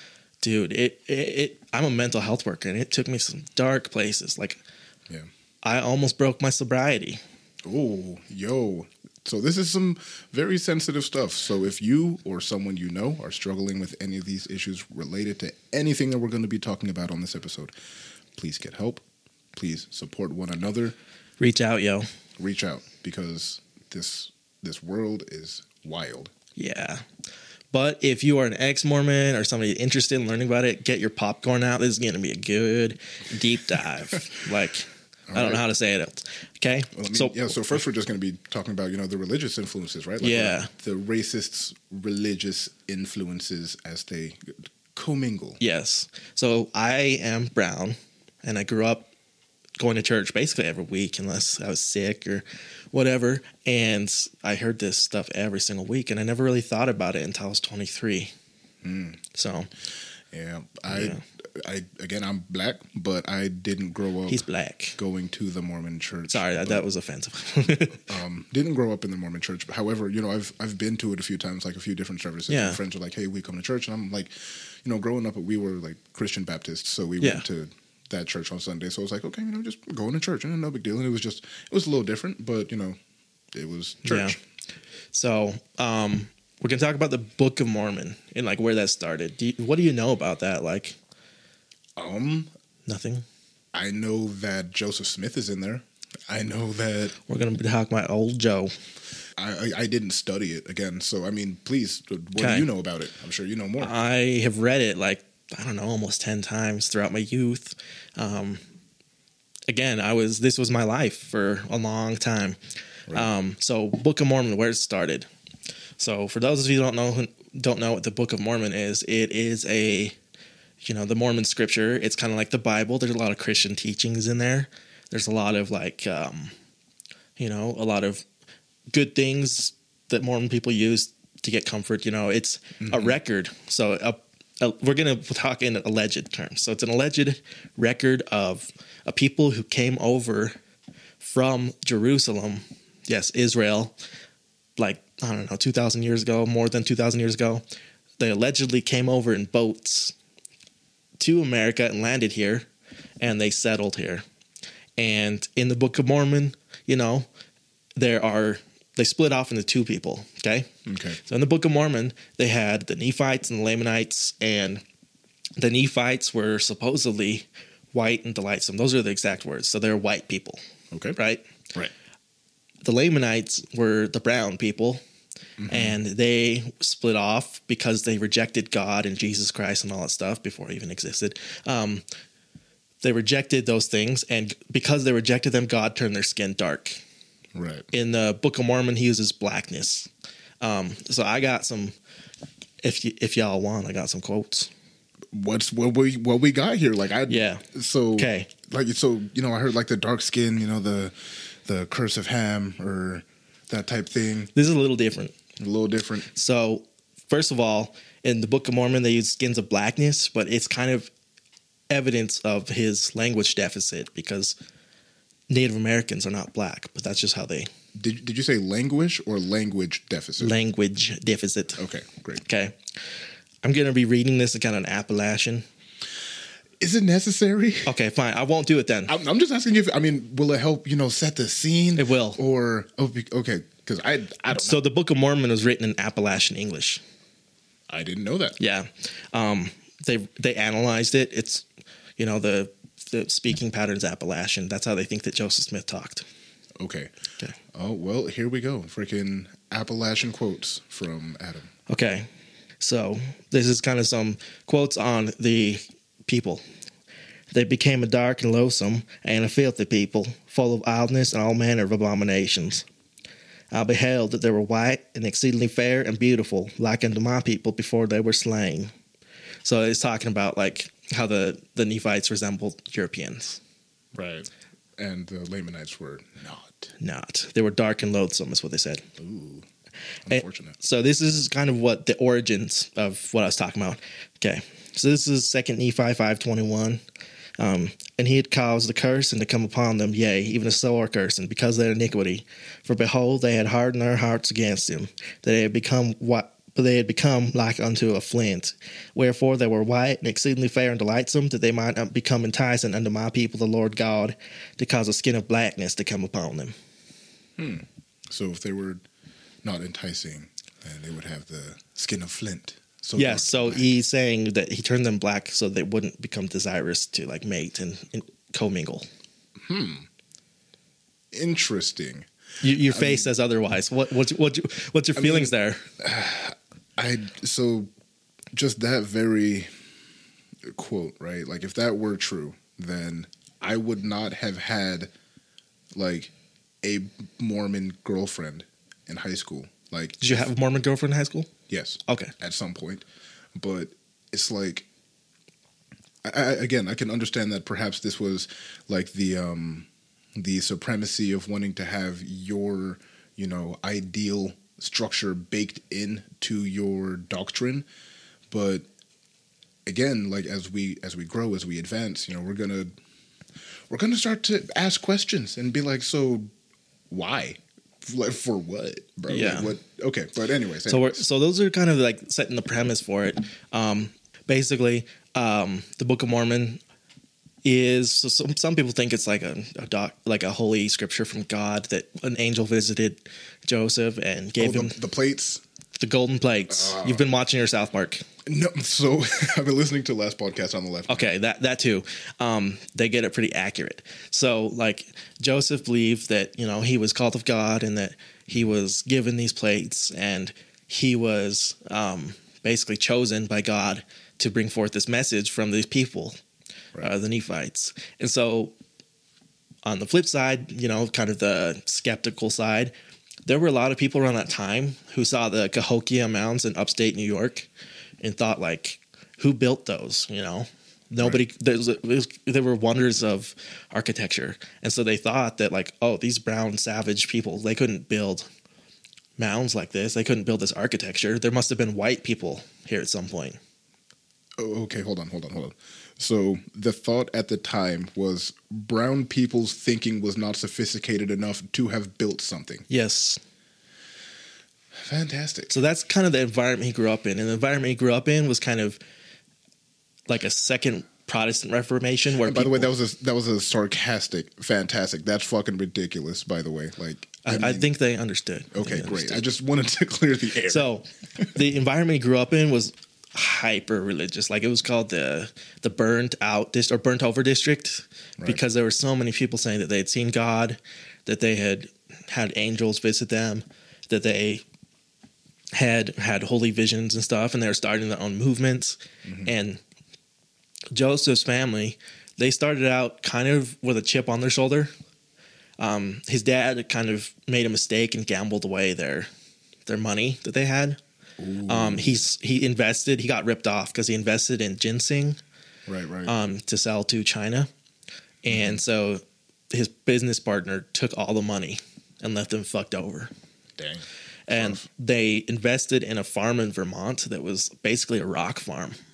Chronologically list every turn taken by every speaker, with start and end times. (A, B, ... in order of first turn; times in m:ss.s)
0:00.4-0:04.6 A
0:05.6-0:07.2 A
0:07.6-0:17.7 B
0:18.3-0:21.0 B
0:21.4-0:22.1 A
0:22.4-0:26.3 B
0:26.6-0:27.0 A
0:27.7-0:37.8 A
0:35.3-0:35.6 B
0:36.9-0:45.6 B
0:40.2-0:40.7 A
0:45.6-0:49.1 A
0:49.8-0:58.3 A
0:58.8-0:59.2 B
0:59.3-0:59.7 A
1:00.3-1:04.4 B
1:00.9-1:01.2 A
1:04.3-1:05.0 A
1:05.0-1:06.8 B
1:06.3-1:08.1 A
1:08.0-1:23.0 B
1:12.5-1:12.8 A
1:23.5-1:24.4 B
1:24.0-1:24.3 A
1:25.1-1:31.0 A
1:32.0-1:32.5 B
1:32.8-1:33.2 A
1:33.7-1:37.1 B
1:37.2-1:38.7 A
1:39.4-1:43.9 B
1:42.4-1:42.7 A
1:43.8-1:48.6 A
1:49.7-1:52.6 A
1:53.1-1:55.3 A
1:56.0-2:00.2 A
2:00.8-2:06.5 A
2:07.4-2:08.2 A
2:08.9-2:20.6 A
2:12.8-2:13.2 B
2:21.2-2:24.0 A
2:24.8-2:27.6 A
2:28.2-2:30.1 A
2:31.2-2:32.7 A
2:33.2-2:34.2 A
2:35.0-2:37.3 A
2:38.0-2:40.7 A
2:40.8-2:41.2 B
2:41.2-2:44.8 A
2:45.6-2:50.6 A
2:50.9-2:51.2 B
2:51.2-2:51.5 A
2:52.8-2:55.0 A
2:55.6-2:56.0 B
2:55.7-3:02.0 A
3:03.0-3:07.0 A
3:07.5-3:07.8 B
3:07.9-3:10.1 A
3:10.6-3:12.0 A
3:12.8-3:14.7 A
3:15.3-3:24.5 B
3:17.3-3:17.6 A
3:18.2-3:18.5 A
3:24.5-3:25.4 A
3:25.6-3:26.3 B
3:26.3-3:31.1 A
3:31.9-3:34.6 A
3:35.5-3:37.7 A
3:37.9-3:40.6 B
3:40.4-3:41.8 A
3:41.8-3:42.4 B
3:42.4-3:42.8 A
3:43.6-3:45.6 A
3:46.8-3:47.9 B
3:47.8-3:49.1 A
3:49.1-3:54.8 B
3:52.0-3:52.4 A
3:54.5-3:57.0 A
3:57.9-3:58.6 B
3:58.6-4:01.6 A
4:02.2-4:06.2 A
4:06.8-4:07.1 B
4:07.7-4:11.7 B
4:11.9-4:12.3 A
4:12.8-4:16.6 A
4:17.5-4:22.8 A
4:23.7-4:28.9 A
4:29.6-4:33.6 A
4:34.1-4:36.9 B
4:37.0-4:39.1 A
4:39.2-4:39.7 B
4:40.2-4:40.8 B
4:40.3-4:47.0 A
4:47.6-5:06.7 A
5:07.6-5:09.0 B
5:09.6-5:14.0 B
5:13.2-5:19.1 A
5:19.6-5:20.1 B
5:21.3-5:23.3 B
5:22.6-5:25.9 A
5:25.2-5:27.9 B
5:28.5-5:29.7 B
5:30.6-5:35.1 B
5:35.9-5:40.5 B
5:40.2-5:41.5 A
5:41.7-5:44.9 B
5:42.1-5:42.3 A
5:46.2-5:57.8 B
5:58.5-5:58.8 B
5:59.8-6:02.9 B
6:03.9-6:06.5 B
6:07.1-6:11.2 B
6:09.3-6:09.7 A
6:10.9-6:16.8 A
6:17.6-6:25.0 A
6:24.6-6:25.6 B
6:26.0-6:28.2 A
6:26.7-6:27.2 B
6:28.4-6:31.3 B
6:31.1-6:46.4 A
6:47.0-6:48.7 A
6:49.8-6:52.9 A
6:53.4-6:57.7 A
6:58.2-7:08.5 A
7:09.4-7:13.6 A
7:14.6-7:22.8 B
7:22.9-7:23.4 A
7:25.0-7:25.7 B
7:25.7-7:29.0 A
7:30.3-7:32.9 A
7:32.4-7:37.9 B
7:37.4-7:39.4 A
7:38.7-7:41.5 B
7:40.7-7:54.6 A
7:55.7-7:59.8 A
7:59.2-7:59.5 B
8:00.9-8:04.9 A
8:05.8-8:09.3 A
8:09.8-8:11.0 A
8:11.4-8:12.2 B
8:11.7-8:15.4 A
8:15.9-8:16.3 B
8:16.2-8:17.7 A
8:18.4-8:23.3 A
8:18.5-8:18.8 B
8:23.8-8:24.8 B
8:24.5-8:29.0 A